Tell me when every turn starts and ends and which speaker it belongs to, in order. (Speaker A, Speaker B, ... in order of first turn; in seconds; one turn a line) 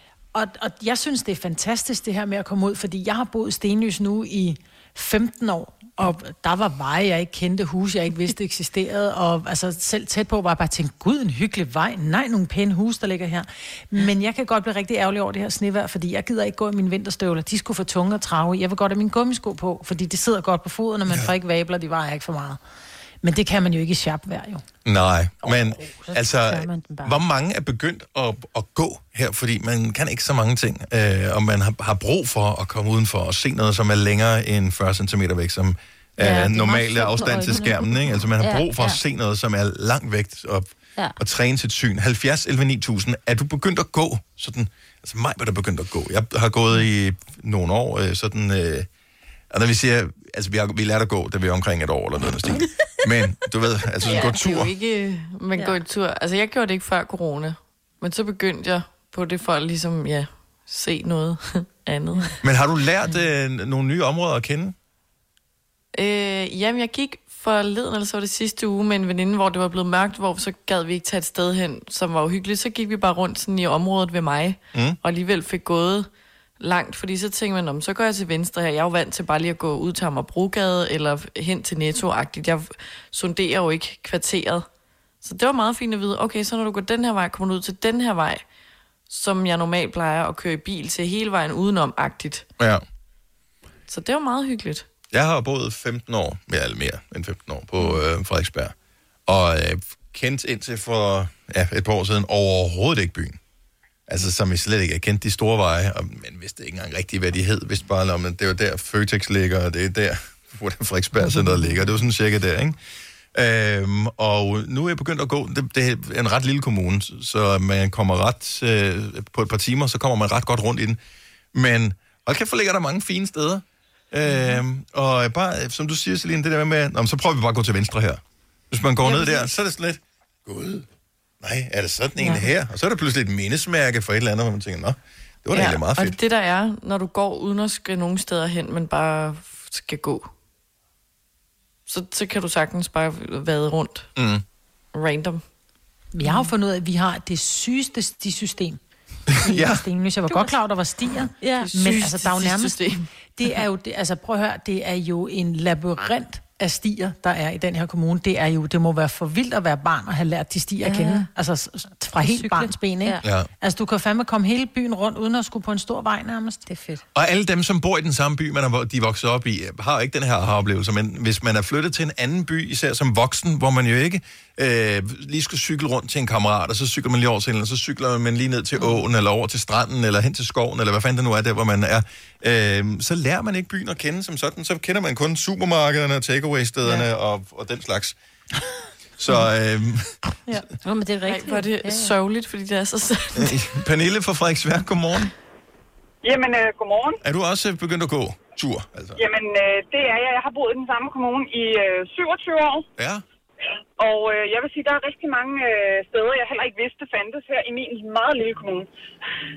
Speaker A: 0.3-22.6
Speaker A: 23.2-24.6
Speaker B: 24.8-48.9
Speaker C: 25.4-27.2
Speaker C: 36.2-39.0
Speaker B: 49.5-54.7
Speaker D: 54.0-62.4
Speaker B: 62.4-64.7
Speaker D: 65.9-76.1
Speaker D: 76.6-84.7
Speaker D: 85.2-88.5
Speaker D: 89.1-92.5
Speaker D: 93.9-94.8
Speaker B: 95.1-98.7
Speaker B: 99.3-103.4
Speaker B: 104.1-112.8
Speaker B: 113.3-121.0
Speaker B: 121.5-130.9
Speaker D: 129.1-129.4
Speaker B: 131.4-136.2
Speaker D: 135.5-140.3
Speaker D: 141.9-144.1
Speaker B: 144.2-144.4
Speaker D: 144.9-145.4
Speaker A: 146.1-148.8
Speaker C: 146.2-146.5
Speaker B: 149.4-149.8
Speaker A: 149.4-166.7
Speaker C: 150.3-150.6
Speaker C: 151.4-151.7
Speaker D: 151.6-153.1
Speaker C: 160.8-161.3
Speaker C: 162.0-163.2
Speaker B: 163.2-163.5
Speaker C: 166.7-167.0
Speaker B: 167.1-188.2
Speaker B: 189.2-190.2
Speaker C: 190.5-192.1
Speaker D: 191.2-193.6
Speaker B: 193.4-195.3
Speaker E: 196.2-197.2
Speaker B: 197.2-199.2
Speaker E: 199.2-202.8
Speaker B: 203.0-203.2
Speaker E: 204.0-208.9